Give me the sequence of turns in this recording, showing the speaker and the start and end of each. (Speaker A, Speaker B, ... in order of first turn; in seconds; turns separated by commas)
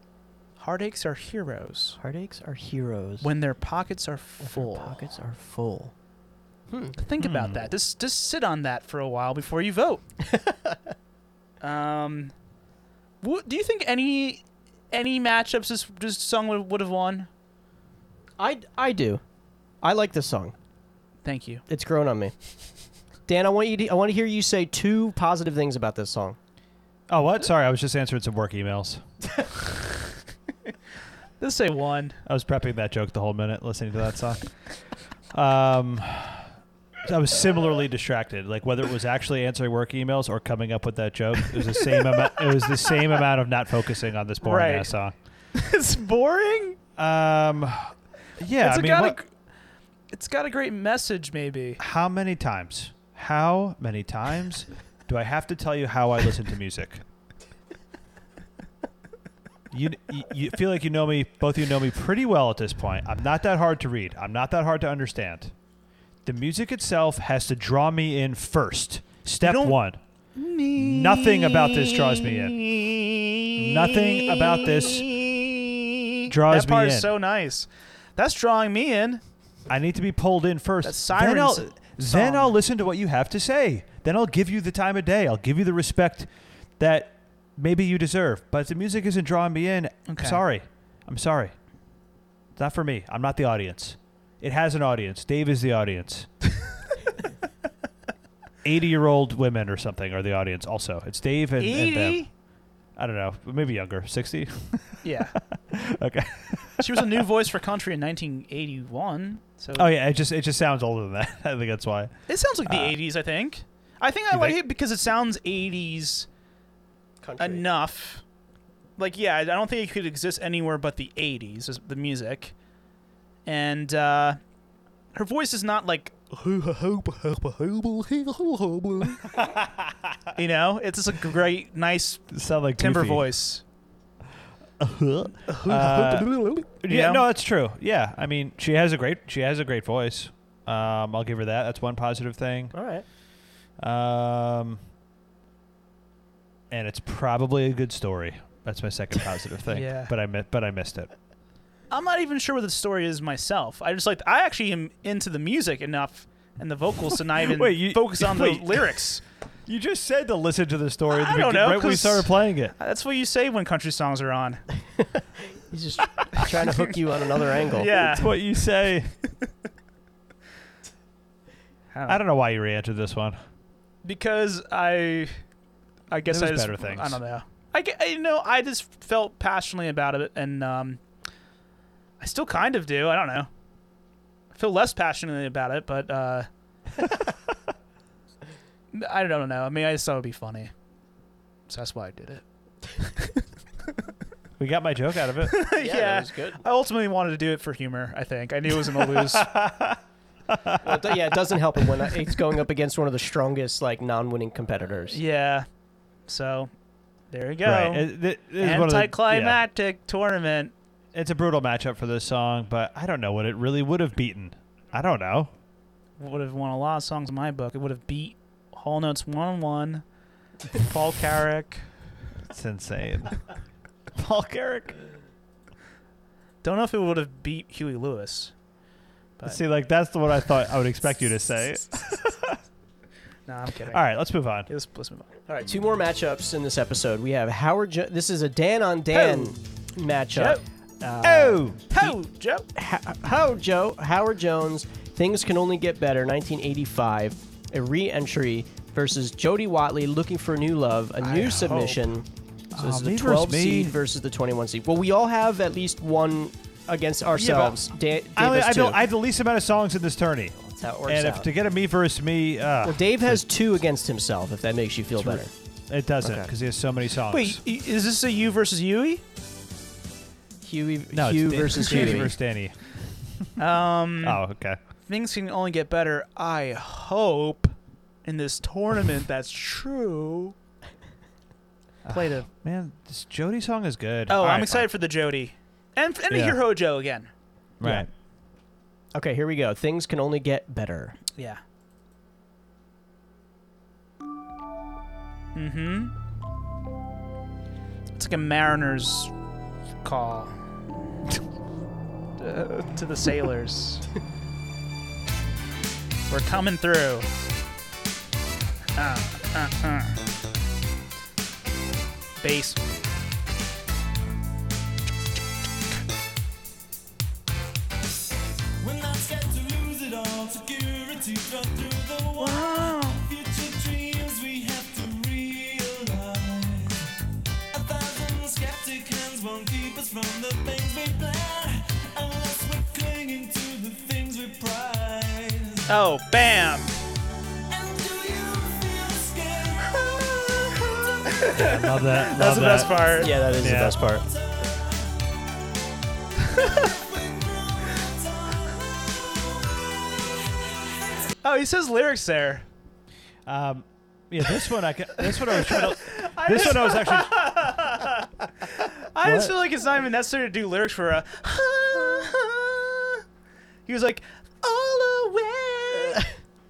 Speaker A: 0.6-2.0, Speaker B: 2.0-3.3, Speaker A: 3.2-5.0, Speaker B: 4.4-5.9, Speaker B: 6.7-7.0, Speaker A: 7.0-10.0, Speaker C: 7.2-7.6, Speaker B: 10.2-10.8, Speaker A: 11.6-12.3, Speaker A: 13.2-17.3, Speaker B: 18.4-19.2, Speaker B: 19.8-20.5, Speaker A: 21.2-21.6, Speaker B: 21.7-22.3, Speaker B: 23.2-26.4, Speaker C: 27.1-29.0, Speaker A: 31.4-32.2, Speaker C: 32.2-34.5, Speaker C: 35.3-36.5, Speaker C: 37.0-45.1, Speaker A: 41.9-43.0, Speaker A: 44.4-45.0, Speaker A: 45.5-46.8, Speaker C: 47.0-49.2, Speaker A: 48.6-49.3, Speaker A: 50.1-51.8, Speaker C: 51.8-57.0, Speaker C: 59.7-65.5, Speaker C: 66.2-70.0, Speaker A: 69.4-69.8, Speaker A: 70.3-79.2, Speaker C: 70.7-72.6, Speaker C: 73.5-75.1, Speaker C: 76.3-77.1, Speaker C: 79.7-91.5, Speaker A: 80.8-82.5, Speaker A: 90.1-90.4, Speaker C: 92.5-96.3, Speaker C: 98.6-102.3, Speaker A: 101.6-102.3, Speaker C: 103.0-107.2, Speaker A: 105.0-105.4, Speaker A: 106.8-109.9, Speaker C: 109.8-112.1, Speaker A: 112.3-116.3, Speaker C: 112.6-113.0, Speaker C: 114.3-114.6, Speaker B: 117.2-117.7, Speaker A: 117.4-118.2, Speaker A: 119.0-122.5, Speaker A: 123.5-124.4, Speaker A: 125.1-129.4, Speaker C: 129.3-130.2, Speaker A: 130.3-133.6, Speaker C: 132.3-133.3, Speaker C: 134.8-142.7, Speaker A: 135.5-137.2, Speaker B: 142.7-143.0, Speaker C: 143.8-144.8, Speaker C: 146.7-151.1, Speaker A: 149.7-150.1, Speaker A: 151.9-159.2, Speaker C: 157.4-159.1, Speaker C: 159.7-162.8, Speaker A: 161.1-164.6, Speaker B: 165.7-167.9, Speaker A: 166.4-166.9, Speaker A: 167.6-168.5, Speaker C: 168.0-169.1, Speaker A: 171.9-172.2, Speaker C: 172.1-173.4, Speaker A: 174.0-175.3, Speaker A: 176.1-181.0, Speaker C: 176.3-177.2, Speaker A: 182.2-183.5, Speaker A: 184.5-186.5, Speaker A: 188.9-190.7, Speaker A: 191.7-192.4, Speaker A: 192.9-193.3, Speaker C: 194.6-195.6, Speaker A: 195.5-199.6, Speaker B: 195.8-196.6, Speaker C: 198.9-201.2, Speaker B: 200.8-205.2, Speaker A: 205.1-205.6, Speaker A: 206.3-206.7, Speaker A: 207.3-210.7, Speaker C: 207.6-209.6, Speaker C: 211.1-215.5, Speaker A: 216.2-220.0, Speaker A: 220.7-221.9, Speaker C: 222.5-223.4, Speaker C: 224.1-225.0, Speaker A: 226.6-228.5, Speaker C: 229.4-232.6, Speaker A: 233.5-235.3, Speaker C: 233.9-234.7, Speaker B: 235.5-242.1, Speaker A: 239.1-239.6, Speaker A: 240.3-240.6, Speaker C: 241.2-242.0, Speaker A: 241.9-242.7, Speaker B: 242.7-259.0, Speaker A: 251.2-252.0, Speaker C: 252.7-254.0, Speaker C: 257.4-263.4, Speaker B: 260.8-261.5, Speaker B: 262.8-265.5, Speaker C: 265.1-267.6, Speaker B: 266.2-266.5, Speaker A: 267.3-269.2, Speaker B: 270.6-272.3, Speaker C: 271.1-273.5, Speaker A: 271.9-272.3, Speaker A: 273.6-274.4, Speaker C: 274.2-274.8, Speaker A: 275.1-280.5, Speaker C: 282.0-284.9, Speaker A: 282.1-282.5, Speaker A: 284.3-287.3, Speaker C: 286.3-286.6, Speaker C: 287.8-288.1, Speaker B: 289.1-291.2, Speaker A: 291.3-291.6, Speaker A: 295.5-296.1, Speaker A: 298.1-299.3, Speaker A: 300.0-300.6, Speaker A: 302.4-304.1, Speaker A: 306.3-307.3, Speaker A: 309.0-310.2, Speaker A: 312.4-312.8, Speaker D: 318.8-327.1, Speaker A: 322.4-323.2, Speaker D: 327.7-335.9, Speaker A: 335.9-336.9, Speaker D: 337.7-340.9, Speaker A: 341.2-343.4, Speaker C: 341.5-344.0, Speaker B: 343.2-344.2, Speaker D: 344.1-345.1, Speaker A: 346.5-346.9, Speaker D: 346.5-351.3, Speaker A: 351.4-352.6, Speaker C: 353.4-357.5, Speaker A: 355.2-363.2, Speaker C: 359.2-359.5, Speaker A: 363.9-366.3